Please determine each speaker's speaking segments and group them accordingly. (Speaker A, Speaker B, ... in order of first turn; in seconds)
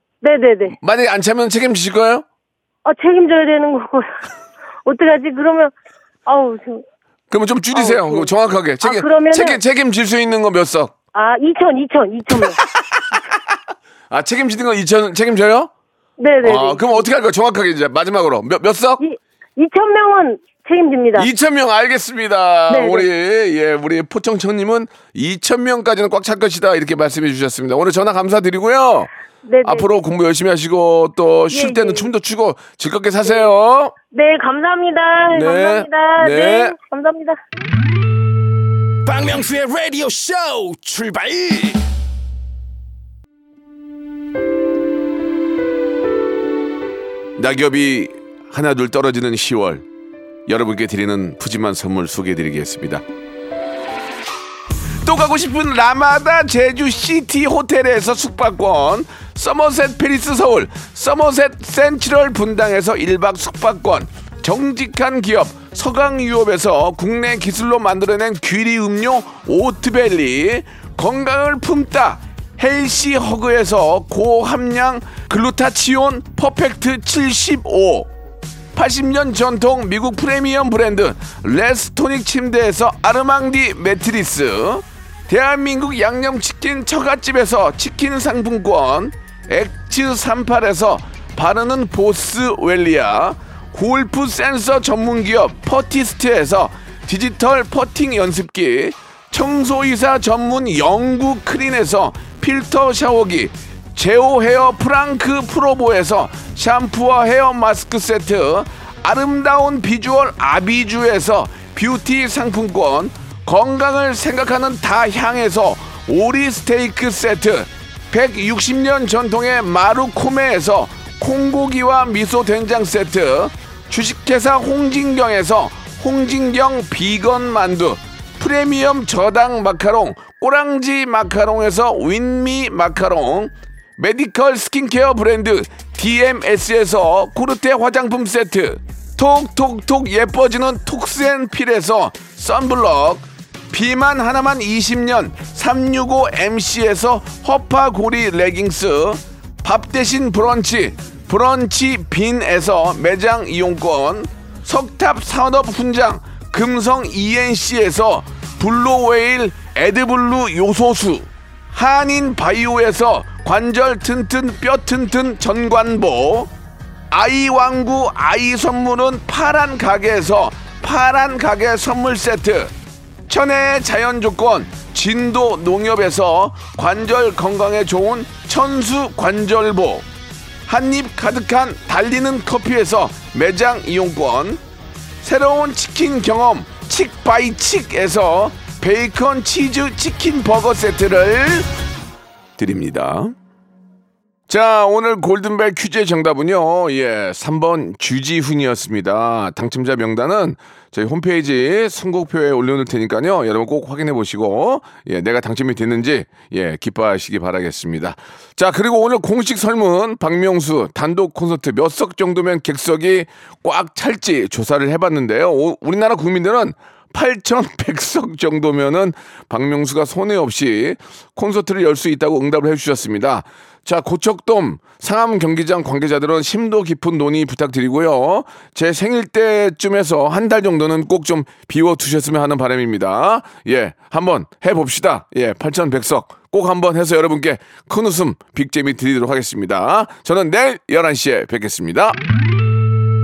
Speaker A: 0.2-0.8, 2.8-4.1, 4.8-5.7, 6.2-6.8, 7.7-9.6, 11.1-12.6, 16.2-17.1, 19.0-21.3, 22.7-23.1, 29.4-29.9, 31.5-32.1, 33.2-33.5, 34.1-37.4
Speaker B: 0.7-2.2, 7.3-10.9, 12.3-13.5, 14.1-15.7, 16.4-19.0, 21.1-29.1, 29.6-33.9, 35.3-36.8, 47.4-49.8, 50.5-53.0, 55.0-78.1, 78.7-166.5, 167.1-172.7, 173.3-180.1, 180.7-184.6, 185.2-191.7, 192.6-193.3, 194.5-242.2
Speaker C: 39.0-41.8